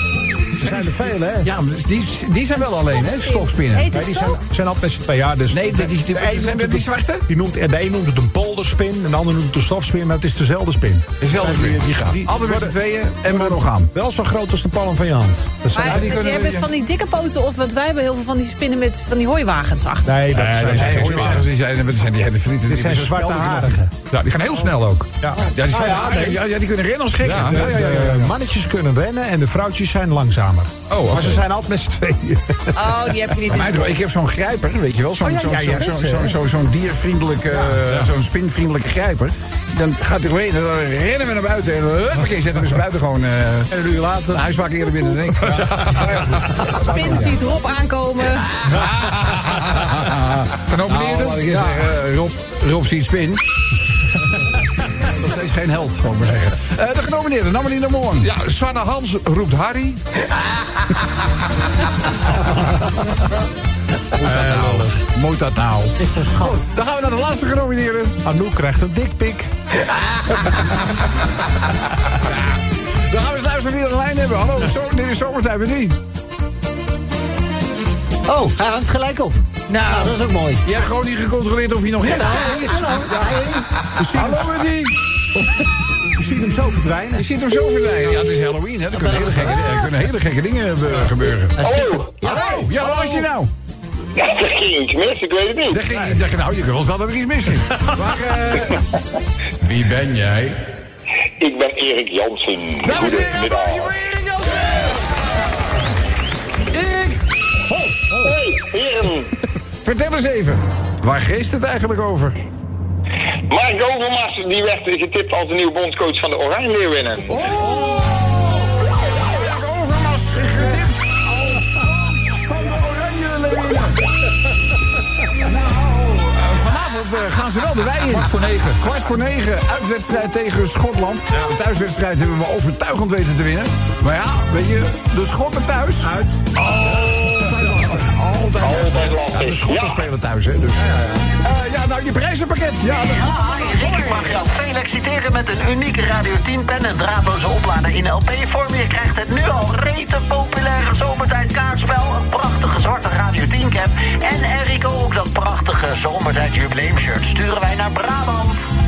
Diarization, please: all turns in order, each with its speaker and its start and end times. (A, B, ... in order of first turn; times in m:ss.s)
0:00.6-0:01.5 A
0:00.6-0:03.9 B
0:02.6-0:04.4 C
0:03.9-0:16.2 A
0:05.5-0:07.3 B
0:11.2-0:13.9 B
0:15.7-0:20.3 C
0:15.8-0:16.6 B
0:20.0-0:21.5 A
0:20.4-0:21.4 D
0:20.6-0:23.8 B
0:22.7-0:23.9 A
0:24.1-0:25.1 D
0:25.2-0:26.4 A
0:25.5-0:28.3 B
0:27.2-0:27.6 D
0:27.3-0:33.1 A
0:30.9-0:31.4 D
0:32.7-0:34.0 C
0:33.5-0:43.7 B
0:35.2-0:36.4 A
0:37.6-0:38.0 A
0:43.7-0:44.5 A
0:44.3-0:47.3 B
0:45.5-0:46.4 A
0:46.7-0:48.7 C
0:48.6-0:53.4 B
0:50.7-0:51.7 D
0:55.0-0:58.3 B
0:58.2-1:00.0 D
1:04.2-1:05.0 A
1:04.2-1:08.2 B
1:06.0-1:06.6 E
1:08.2-1:09.5 A
1:12.2-1:16.0 B
1:18.2-1:20.6 E
1:19.7-1:20.2 C
1:20.6-1:24.9 B
1:22.1-1:23.6 E
1:22.2-1:25.6 A
1:26.1-1:27.3 A
1:27.2-1:33.5 B
1:28.9-1:29.6 E
1:31.6-1:32.1 F
1:31.6-1:32.6 E
1:32.2-1:33.3 A
1:34.1-1:35.8 F
1:35.7-1:38.8 B
1:35.9-1:36.2 A
1:39.6-1:40.6 B
1:41.4-1:43.9 F
1:42.8-1:45.2 B
1:46.7-1:47.2 B
1:47.7-1:48.3 B
1:48.1-1:49.3 F
1:49.8-1:52.4 B
1:53.5-1:57.4 F
1:57.3-2:04.0 B
2:05.4-2:24.4 B
2:08.1-2:08.8 D
2:16.0-2:17.4 A
2:18.6-2:20.1 F
2:20.8-2:21.2 A
2:22.8-2:38.6 E